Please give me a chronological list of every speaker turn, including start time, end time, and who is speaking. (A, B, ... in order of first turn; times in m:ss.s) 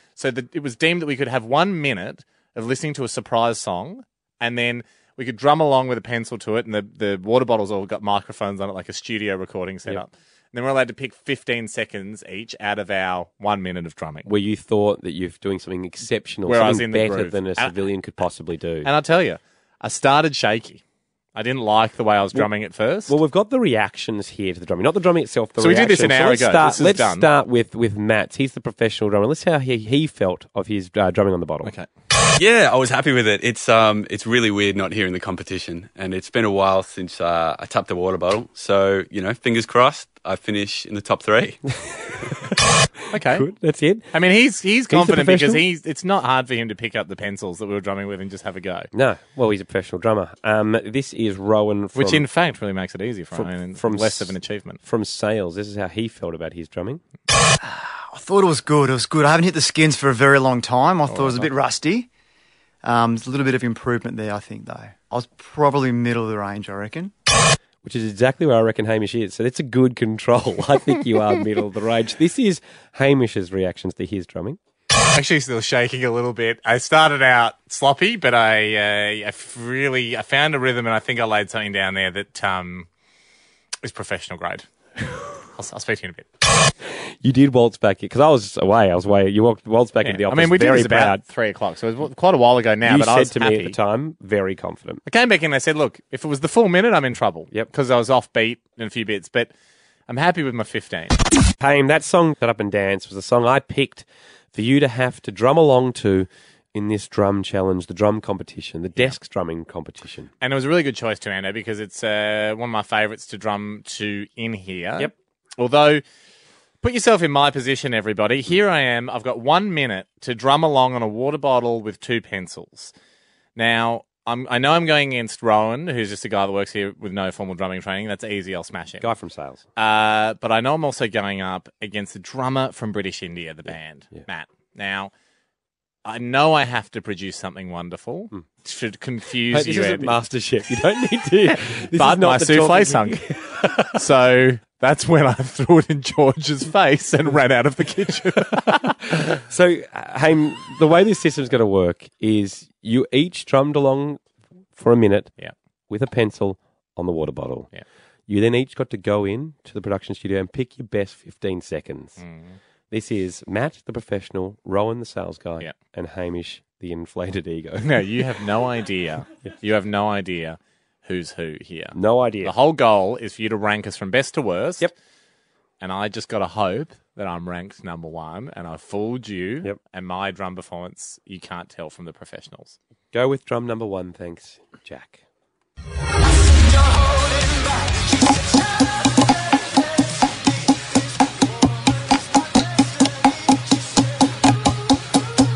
0:00.2-0:14.3 A
0:14.2-0:18.9 B
0:16.5-0:17.8 A
0:18.8-0:20.8 A
0:21.4-0:23.2 A
0:23.1-0:31.7 B
0:25.6-0:27.3 A
0:31.6-0:31.9 A
0:32.4-0:41.6 C
0:41.9-0:42.5 B
0:43.1-0:43.5 A
0:43.3-0:44.1 B
0:44.1-0:48.9 A
0:44.9-0:45.6 B
0:48.9-0:52.3 B
0:52.0-0:54.8 A
0:53.3-0:57.0 B
0:57.6-1:02.1 D
1:01.1-1:01.5 A
1:02.8-1:07.1 D
1:07.8-1:14.6 B
1:15.1-1:22.9 A
1:23.8-1:24.7 A
1:25.5-1:26.3 A
1:27.2-1:31.2 B
1:30.0-1:33.8 A
1:32.8-1:35.0 B
1:35.1-1:39.5 A
1:40.1-1:41.2 A
1:41.6-1:50.3 B
1:50.4-1:56.0 A
1:56.8-2:02.9 A
2:03.6-2:09.1 A
2:09.0-2:09.6 B
2:09.8-2:15.1 A
2:16.0-2:20.2 A
2:19.5-2:24.0 B
2:21.9-2:23.2 A
2:23.9-2:29.0 A
2:29.3-2:34.2 B
2:34.8-2:35.3 B
2:35.9-2:37.7 B
2:38.3-2:42.2 B
2:42.2-2:42.6 A
2:42.9-2:48.0 B
2:47.8-2:54.9 A
2:52.0-2:52.5 B
2:55.8-3:02.8 A
3:03.1-3:05.2 B